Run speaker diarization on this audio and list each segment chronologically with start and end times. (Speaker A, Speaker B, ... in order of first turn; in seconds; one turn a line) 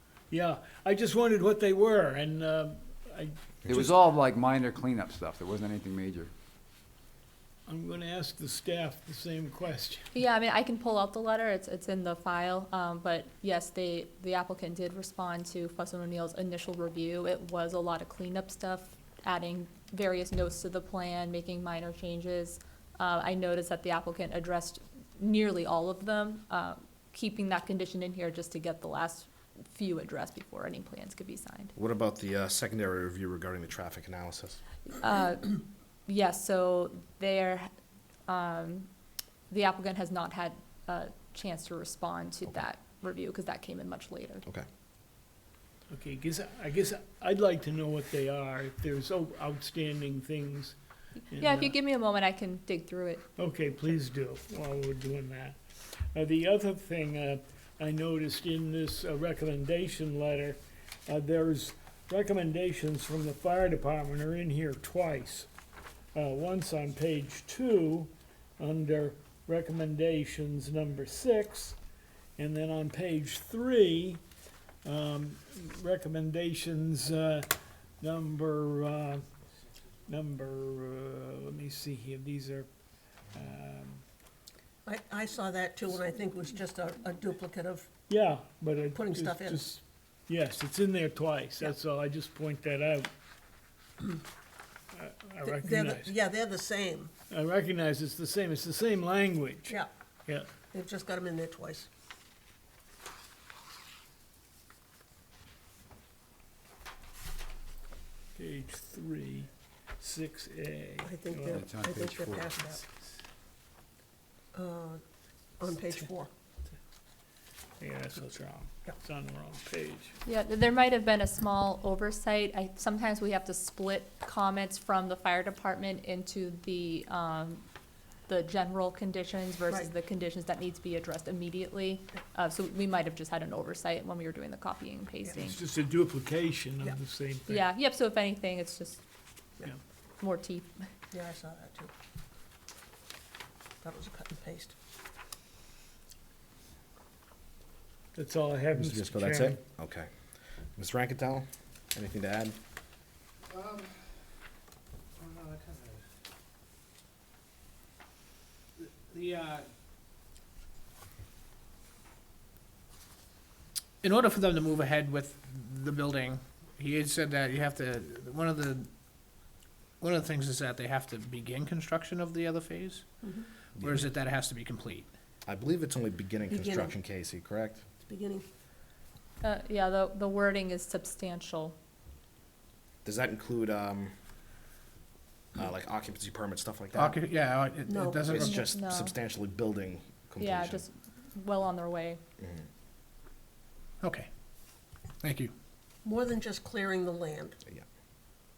Speaker A: 0.3-3.9
Speaker B: 3.7-6.3
Speaker A: 7.7-10.1
Speaker C: 10.1-31.7
Speaker D: 31.8-34.6
Speaker C: 34.9-37.7
Speaker C: 38.3-38.9
Speaker C: 39.5-44.4
Speaker A: 45.9-50.8
Speaker A: 51.3-51.7
Speaker C: 51.3-53.2
Speaker A: 53.4-65.5
Speaker A: 66.1-71.8
Speaker A: 72.4-74.2
Speaker A: 74.8-79.2
Speaker A: 80.1-82.7
Speaker A: 83.3-84.0
Speaker E: 84.8-87.9
Speaker A: 88.1-93.1
Speaker E: 88.9-89.7
Speaker A: 94.9-96.2
Speaker E: 95.4-97.1
Speaker A: 97.3-100.5
Speaker E: 100.7-101.9
Speaker A: 108.3-109.5
Speaker A: 110.0-111.7
Speaker E: 111.0-112.8
Speaker B: 111.5-112.6
Speaker E: 114.5-115.0
Speaker E: 115.6-116.3
Speaker A: 117.8-120.1
Speaker C: 120.2-127.6
Speaker C: 128.3-135.6
Speaker A: 135.4-137.6
Speaker C: 137.5-139.0
Speaker C: 140.2-140.9
Speaker E: 141.1-141.9
Speaker E: 143.8-144.7
Speaker A: 148.1-149.6
Speaker D: 148.7-150.1
Speaker D: 150.8-152.6
Speaker F: 153.5-153.9
Speaker F: 155.2-156.0
Speaker F: 158.8-159.7
Speaker F: 164.0-168.9
Speaker F: 170.0-173.0
Speaker D: 173.8-174.1
Speaker F: 173.8-175.1
Speaker D: 175.4-177.8
Speaker E: 176.5-176.9
Speaker E: 178.0-178.4
Speaker C: 179.4-181.8
Speaker D: 183.0-184.1
Speaker D: 185.5-187.2
Speaker F: 186.9-188.7
Speaker E: 187.9-188.3
Speaker D: 188.3-190.8
Speaker C: 188.3-189.2
Speaker C: 190.4-192.2
Speaker D: 192.4-192.6
Speaker F: 194.0-194.3
Speaker F: 195.2-195.5
Speaker E: 196.0-197.6